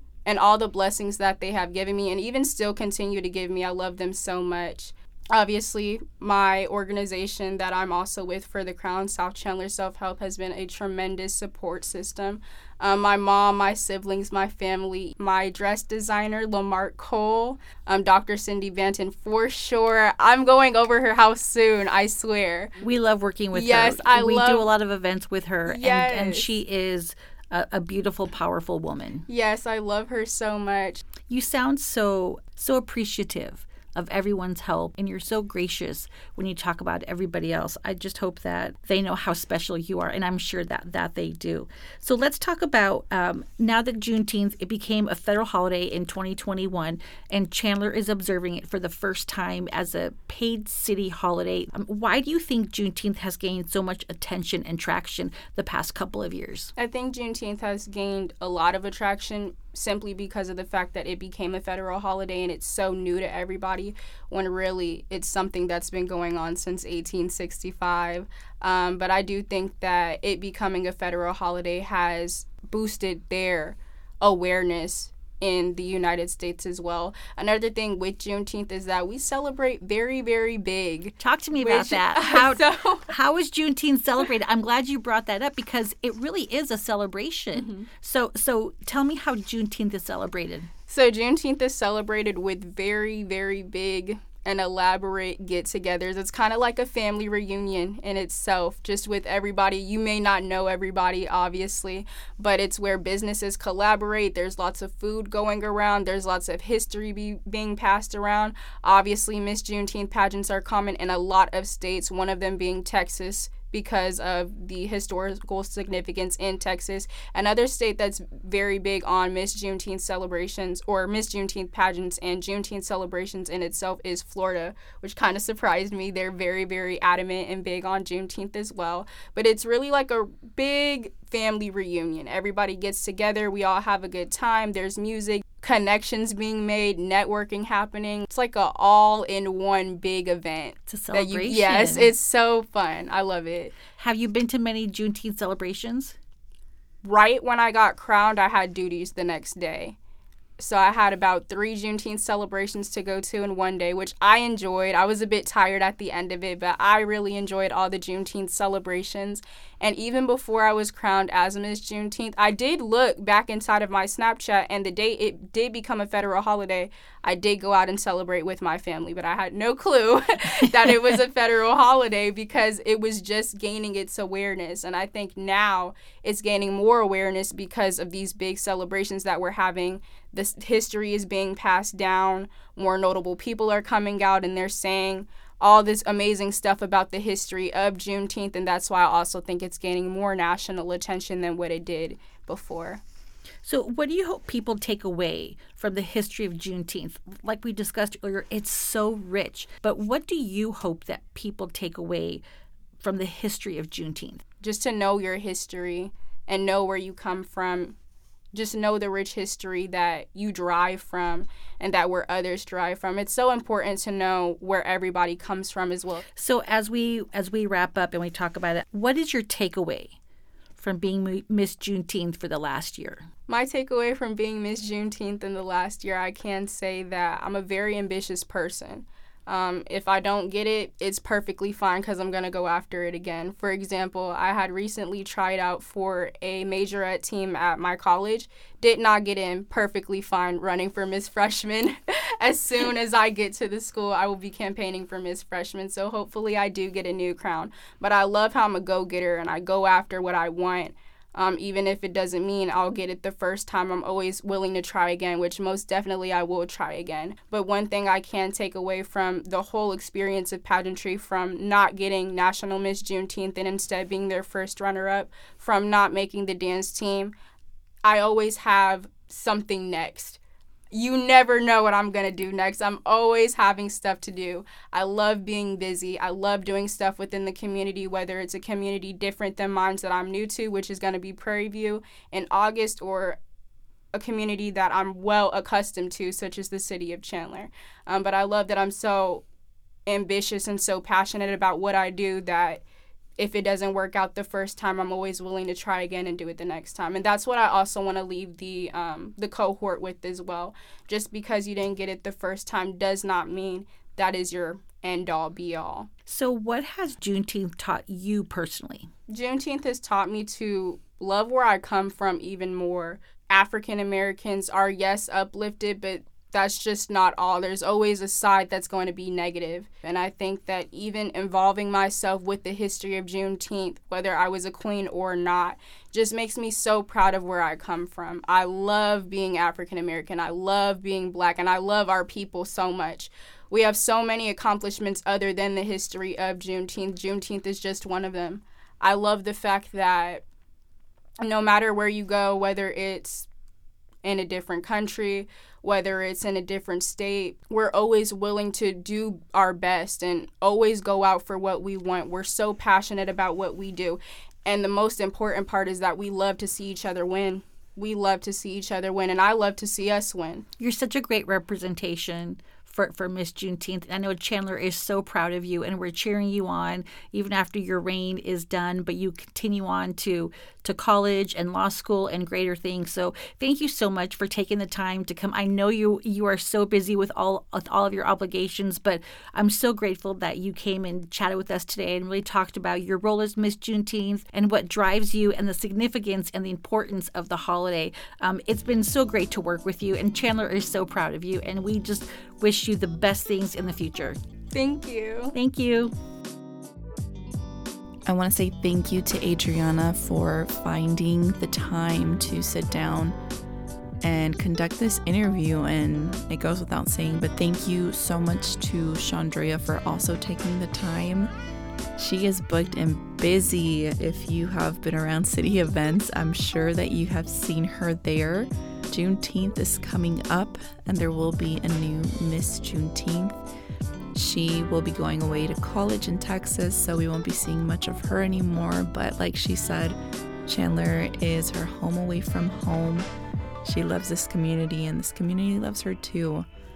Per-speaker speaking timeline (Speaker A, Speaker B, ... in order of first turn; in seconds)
Speaker A: 0.2-22.8, 23.5-24.6, 25.7-26.6, 29.3-31.0, 56.8-83.1, 87.5-87.9, 90.9-143.8, 147.0-150.0, 150.6-193.0, 204.6-207.9, 208.5-216.2, 223.5-267.3, 268.0-270.4, 270.9-283.4, 284.1-289.4, 290.1-292.8, 293.4-306.1, 309.3-340.4, 341.4-343.5, 344.2-360.6, 394.7-395.5
Speaker B: 22.8-29.3, 31.3-56.7, 81.2-90.7, 140.9-142.1, 144.0-146.2, 193.6-202.4, 203.0-204.4, 216.3-220.2, 220.8-223.3, 306.3-309.1, 360.8-394.4, 395.5-396.1
Speaker C: 398.2-403.3, 404.2-411.5, 412.2-423.6, 424.3-433.3, 433.8-436.6